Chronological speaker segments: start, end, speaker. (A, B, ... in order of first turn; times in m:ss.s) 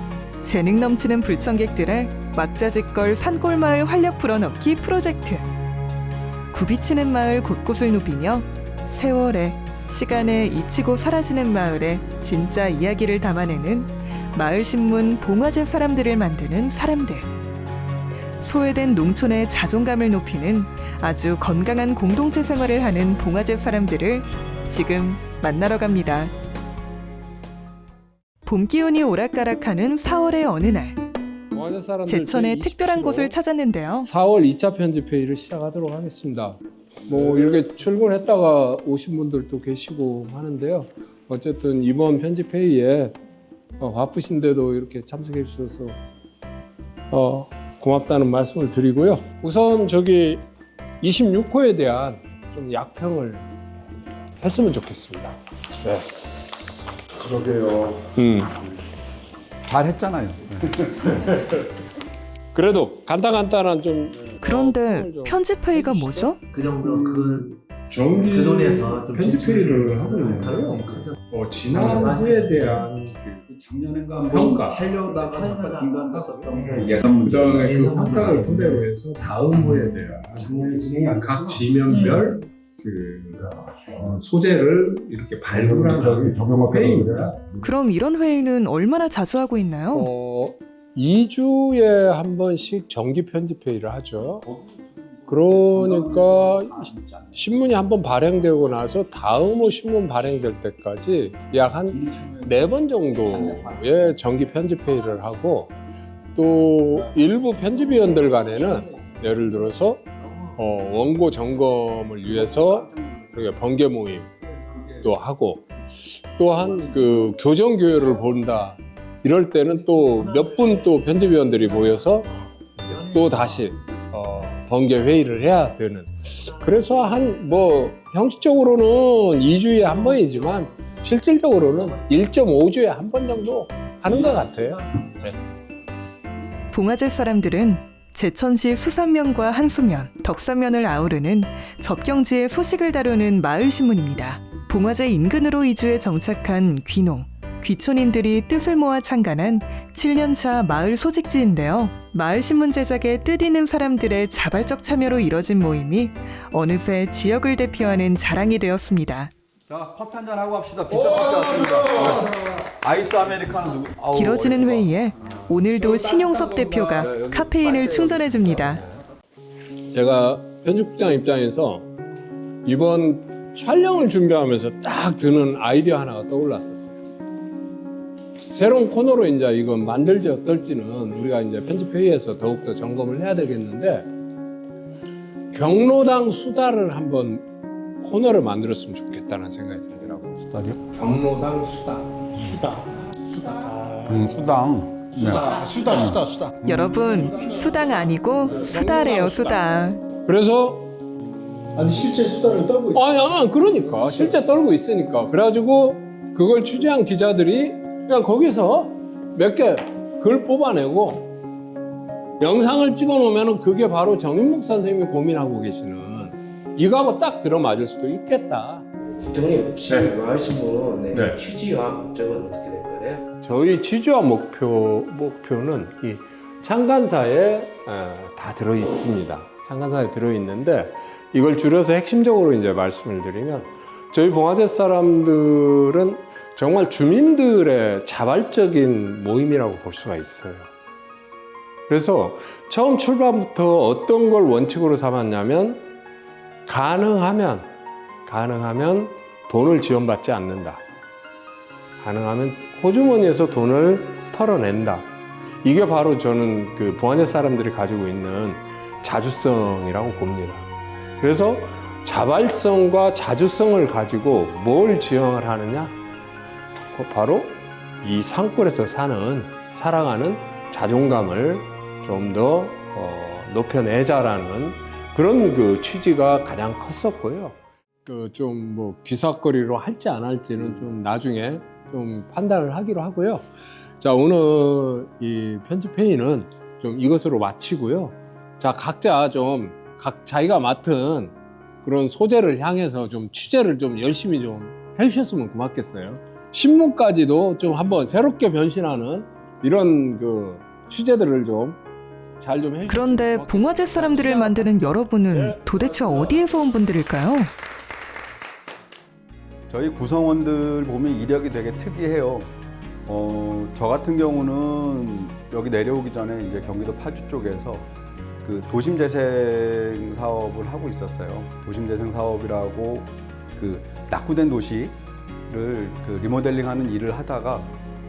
0:00.4-0:05.4 A
0:06.5-0:17.3 A
0:18.4-0:26.3 A
0:28.4-0:31.0 A
0:31.5-0:33.3 B
0:32.1-0:34.1 A
0:34.0-0:43.2 B
0:43.8-0:46.0 B
0:47.1-0:50.4 B
0:51.0-0:53.4 B
0:54.4-0:56.7 B
0:57.2-0:58.5 B
0:57.3-0:57.8 C
0:59.6-1:01.2 C
1:01.2-1:01.5 B
1:02.5-1:13.4 B
1:04.4-1:06.4 A
1:13.5-1:17.9 C
1:14.3-1:27.6 B
1:20.4-1:21.0 C
1:25.5-1:27.4 C
1:27.6-1:30.1 A
1:29.9-1:34.4 B
1:35.3-1:37.4 C
1:35.3-1:45.7 B
1:42.0-1:42.5 C
1:46.3-1:54.3 B
1:55.0-2:15.4 B
2:16.7-2:39.3 A
2:39.7-2:45.6 C
2:41.2-2:42.2 B
2:44.1-2:48.8 A
2:46.8-2:49.0 C
2:49.9-2:51.8 B
2:52.6-2:57.0 B
2:58.5-3:04.1 B
3:05.5-3:07.4 B
3:08.0-3:10.4 B
3:10.4-3:10.8 C
3:10.9-3:14.5 B
3:14.0-3:17.2 C
3:15.1-3:16.6 D
3:16.6-3:20.0 A
3:17.3-3:17.7 B
3:18.4-3:19.6 B
3:20.2-3:20.9 B
3:21.7-3:23.1 D
3:22.9-3:31.3 B
3:23.7-3:24.4 D
3:32.4-3:38.8 B
3:39.3-3:43.2 E
3:41.1-3:41.4 B
3:43.4-4:00.7 B
4:01.9-4:05.8 B
4:06.6-4:07.7 B
4:08.2-4:10.8 B
4:12.0-4:15.1 B
4:15.6-4:20.7 B
4:21.2-4:25.9 B
4:26.9-4:43.4 B
4:44.0-5:01.8 B
5:02.4-5:06.3 B
5:02.9-5:07.5 A
5:09.7-5:12.5 C
5:13.0-5:17.9 C
5:18.4-5:25.0 C
5:25.5-5:27.7 C